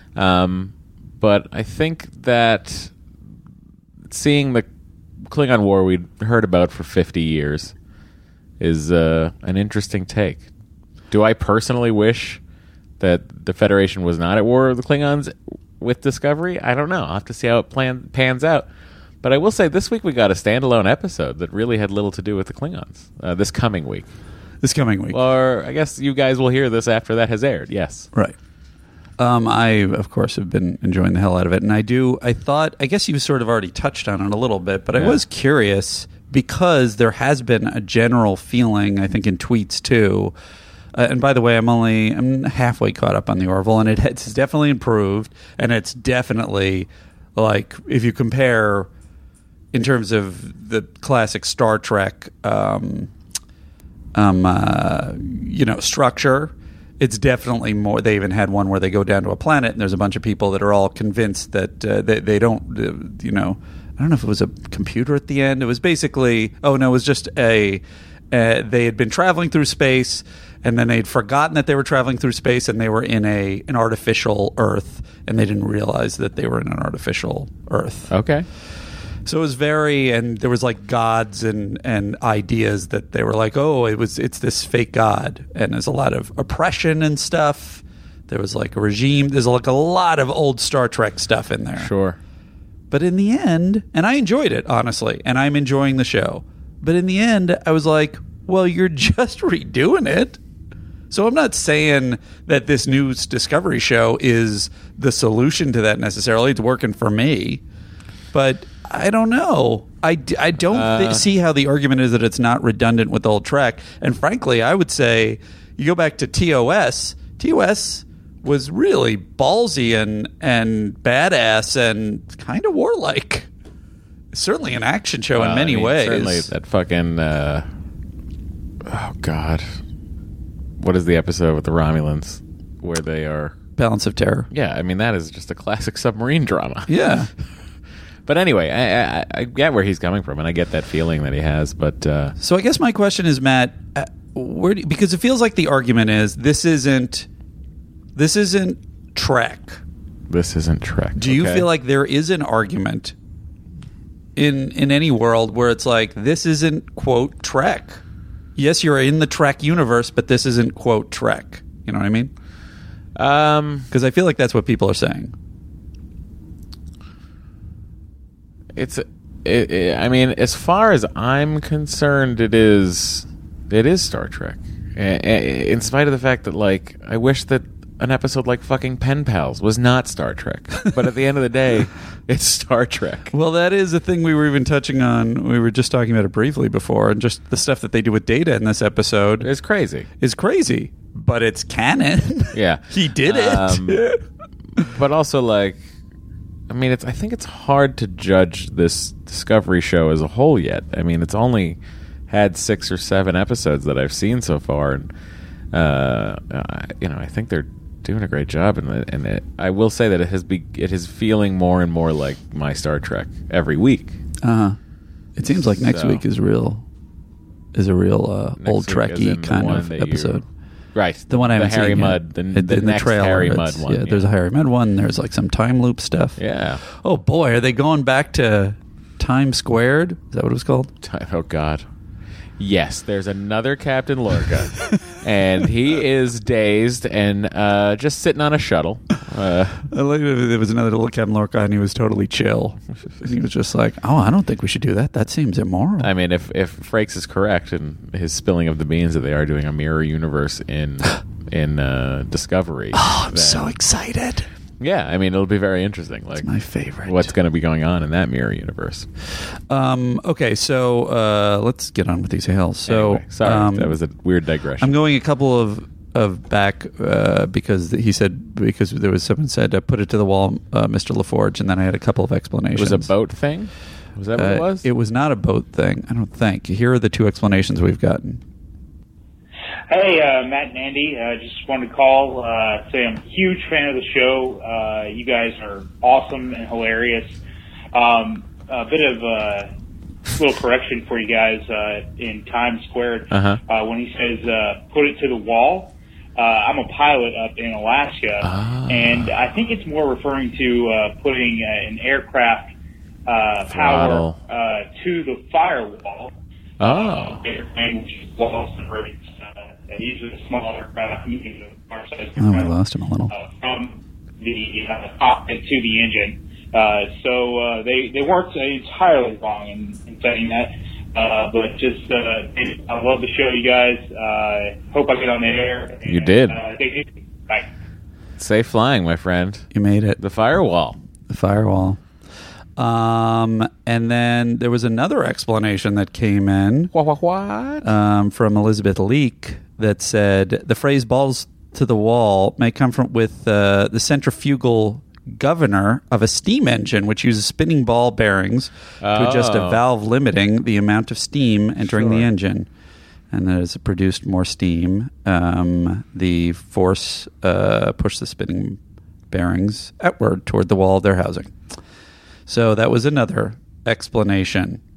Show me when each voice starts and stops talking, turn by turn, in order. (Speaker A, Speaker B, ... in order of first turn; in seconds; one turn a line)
Speaker A: 0.2-2.9
Speaker A: 4.1-4.7
Speaker A: 5.3-7.7
Speaker A: 8.6-10.5
Speaker A: 11.1-12.4
Speaker A: 13.0-18.7
Speaker A: 19.2-24.1
Speaker B: 24.6-25.2
Speaker A: 25.1-28.1
Speaker B: 29.2-40.4
Speaker B: 40.9-48.9
Speaker B: 49.7-53.1
Speaker B: 54.1-78.1
Speaker A: 78.1-78.5
Speaker B: 79.2-91.9
Speaker A: 91.8-92.2
Speaker B: 92.9-100.4
Speaker B: 101.1-107.6
Speaker B: 108.3-123.5
Speaker A: 110.7-111.3
Speaker B: 124.3-126.5
Speaker A: 125.3-127.7
Speaker A: 128.8-129.8
Speaker A: 130.8-133.6
Speaker B: 133.8-134.5
Speaker A: 134.5-136.9
Speaker B: 136.9-137.3
Speaker A: 138.3-142.3
Speaker B: 142.4-147.3
Speaker B: 148.2-149.8
Speaker A: 150.3-151.7
Speaker B: 151.2-153.2
Speaker B: 154.4-158.0
Speaker B: 158.6-162.3
Speaker A: 163.2-163.9
Speaker B: 163.9-165.3
Speaker A: 168.8-183.3
Speaker B: 183.3-189.5
Speaker A: 189.4-190.1
Speaker B: 190.2-194.2
Speaker A: 192.5-194.0
Speaker A: 194.8-195.8
Speaker A: 196.7-205.1
Speaker A: 205.7-214.2
Speaker B: 214.4-214.8
Speaker B: 215.4-216.8
Speaker A: 215.7-216.2
Speaker B: 217.7-220.4
Speaker A: 218.6-220.4
Speaker A: 220.9-224.3
Speaker B: 221.3-230.9
Speaker A: 226.4-226.8
Speaker A: 231.0-231.8
Speaker A: 232.6-239.9
Speaker B: 239.9-246.1
Speaker A: 246.0-253.7
Speaker B: 252.9-254.5
Speaker A: 254.8-256.5
Speaker B: 256.4-257.3
Speaker A: 257.0-259.1
Speaker B: 259.7-264.0
Speaker A: 262.9-265.0
Speaker B: 264.8-273.1
Speaker A: 272.7-274.9
Speaker B: 274.4-278.4
Speaker C: 279.9-287.4
Speaker C: 287.9-289.7
Speaker C: 290.4-302.7
Speaker A: 293.3-293.6
Speaker A: 298.4-299.3
Speaker C: 303.3-306.3
Speaker A: 303.7-304.4
Speaker A: 306.8-307.4
Speaker C: 306.8-312.7
Speaker B: 312.4-313.3
Speaker C: 313.3-327.7
Speaker A: 326.1-326.6
Speaker A: 328.4-329.7
Speaker B: 329.7-330.2
Speaker A: 330.2-331.0
Speaker B: 331.3-332.0
Speaker B: 332.8-336.9
Speaker A: 336.9-337.9
Speaker B: 337.8-352.7
Speaker A: 349.0-349.8
Speaker A: 351.8-352.3
Speaker B: 353.3-361.5
Speaker B: 362.5-364.8